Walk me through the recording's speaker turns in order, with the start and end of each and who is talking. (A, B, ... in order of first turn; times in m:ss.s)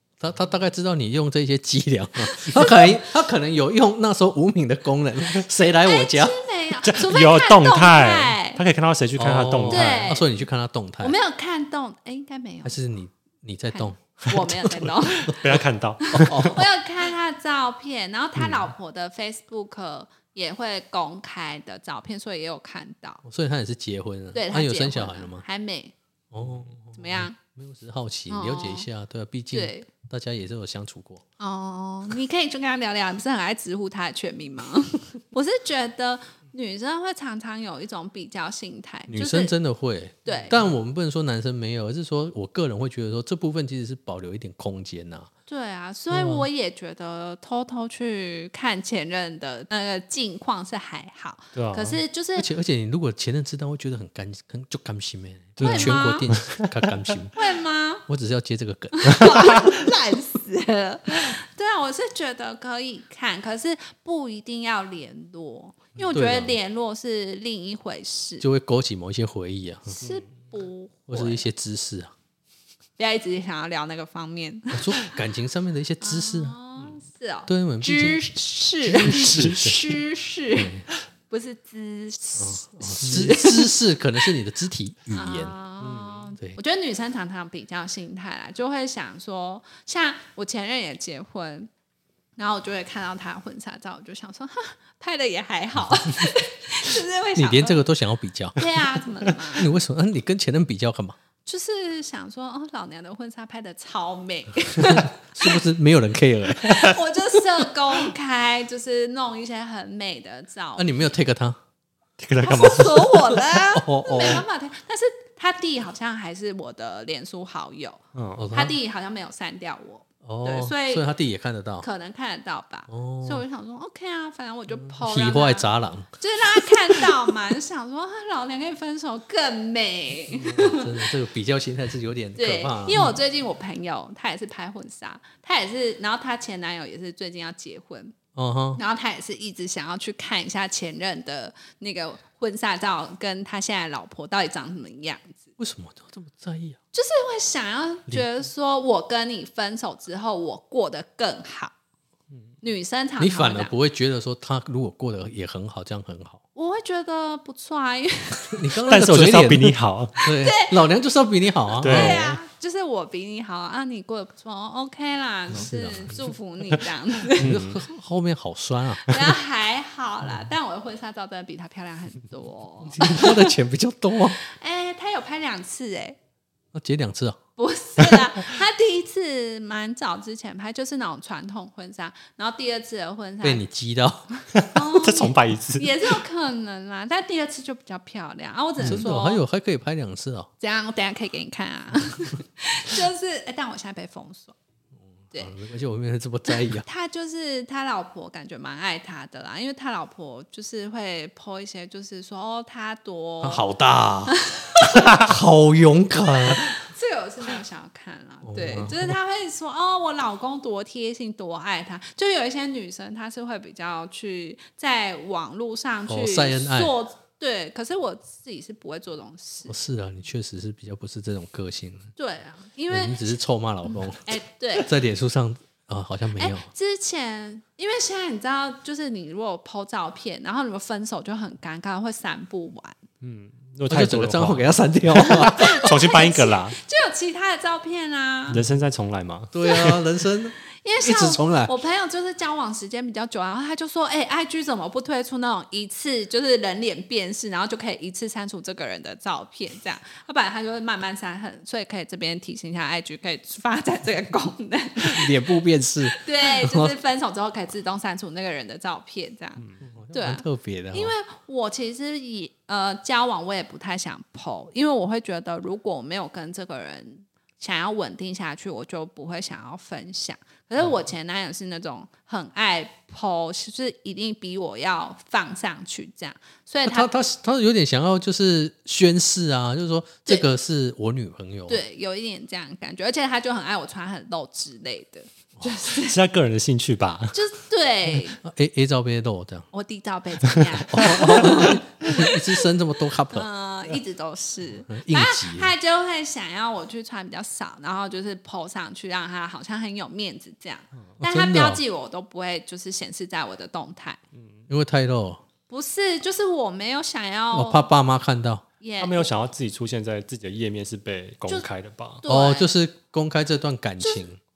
0:00.2-0:06.4 A
0:02.2-0:02.9 B
0:05.8-0:08.6 B
0:06.8-0:10.0 C
0:09.2-0:11.2 A
0:09.7-0:10.3 B
0:11.0-0:12.8 B
0:12.6-0:15.5 A
0:13.7-0:15.5 B
0:14.8-0:16.6 C
0:16.0-0:23.2 B
0:16.1-0:16.7 A
0:23.2-0:25.4 A
0:24.3-0:25.9 B
0:26.3-0:31.2 A
0:27.0-0:27.4 B
0:28.3-0:28.9 B
0:29.5-0:29.9 B
0:31.4-0:39.5 B
0:39.1-0:45.3 A
0:40.3-0:40.6 B
0:45.5-0:52.5 B
0:46.1-0:46.5 A
0:51.6-0:52.0 C
0:52.4-0:57.4 A
0:55.6-0:56.3 B
0:55.6-0:56.7 C
0:57.4-0:58.0 B
0:58.1-0:59.7 A
0:59.0-1:08.4 B
1:06.1-1:06.6 A
1:08.4-1:10.0 A
1:09.9-1:11.5 B
1:11.1-1:12.1 A
1:13.0-1:15.2 B
1:14.7-1:16.6 A
1:16.0-1:20.8 B
1:17.5-1:18.2 A
1:18.8-1:19.9 A
1:19.3-1:19.8 C
1:20.5-1:20.8 A
1:21.3-1:23.7 B
1:22.4-1:25.6 A
1:25.1-1:31.7 B
1:25.8-1:26.3 C
1:32.4-1:37.8 B
1:37.4-1:41.2 A
1:38.6-1:39.7 B
1:41.5-1:45.6 B
1:44.9-1:47.0 A
1:46.6-1:51.0 B
1:50.8-1:51.6 A
1:52.2-1:53.2 C
1:52.4-2:01.0 B
1:52.7-1:54.4 A
1:58.1-1:58.5 C
1:58.4-1:58.8 A
2:00.2-2:01.9 A
2:01.8-2:05.7 B
2:02.9-2:03.4 A
2:04.8-2:07.2 A
2:06.2-2:11.1 B
2:10.3-2:13.2 A
2:12.4-2:18.2 B
2:18.4-2:18.8 A
2:18.8-2:25.4 B
2:25.6-2:26.8 A
2:26.9-2:31.7 B
2:32.6-2:33.7 B
2:33.2-2:36.4 A
2:36.6-2:38.7 B
2:38.5-2:42.4 A
2:38.9-2:40.2 C
2:40.2-2:40.8 B
2:41.8-2:42.2 C
2:41.8-2:47.5 B
2:45.5-2:46.2 A
2:47.4-2:47.8 C
2:47.4-2:49.3 A
2:49.1-2:53.5 B
2:52.9-2:54.4 A
2:54.4-2:56.2 B
2:56.7-2:57.4 A
2:57.6-3:03.6 B
2:58.0-2:58.2 A
3:03.4-3:04.3 A
3:04.6-3:05.9 C
3:04.6-3:09.4 B
3:08.8-3:10.5 A
3:10.6-3:14.6 B
3:15.3-3:16.8 A
3:16.5-3:23.6 B
3:23.4-3:26.7 A
3:24.3-3:25.2 B
3:26.6-3:39.8 B
3:28.5-3:29.2 A
3:36.1-3:36.9 A
3:39.7-3:42.1 A
3:42.2-3:43.3 B
3:42.9-3:46.7 A
3:43.9-3:44.9 B
3:46.4-3:53.0 B
3:53.2-3:56.8 C
3:53.9-3:55.9 A
3:55.2-3:58.6 B
3:58.5-3:59.5 C
3:59.5-4:01.7 A
3:59.6-4:00.0 B
4:00.7-4:15.4 B
4:15.0-4:17.0 A
4:16.1-4:37.1 B
4:19.8-4:21.2 A
4:36.9-4:41.8 A
4:41.7-4:46.2 B
4:45.9-4:47.4 C
4:47.3-4:48.4 B
4:48.4-4:49.7 A
4:49.7-4:52.6 B
4:50.9-4:53.5 A
4:53.3-5:04.2 B
4:54.9-4:55.7 A
5:01.2-5:01.8 A
5:04.4-5:04.6 C
5:04.7-5:05.4 A
5:05.7-5:07.9 B
5:07.5-5:08.6 A
5:08.8-5:09.3 B
5:09.0-5:12.2 C
5:12.2-5:12.7 B
5:12.3-5:14.4 A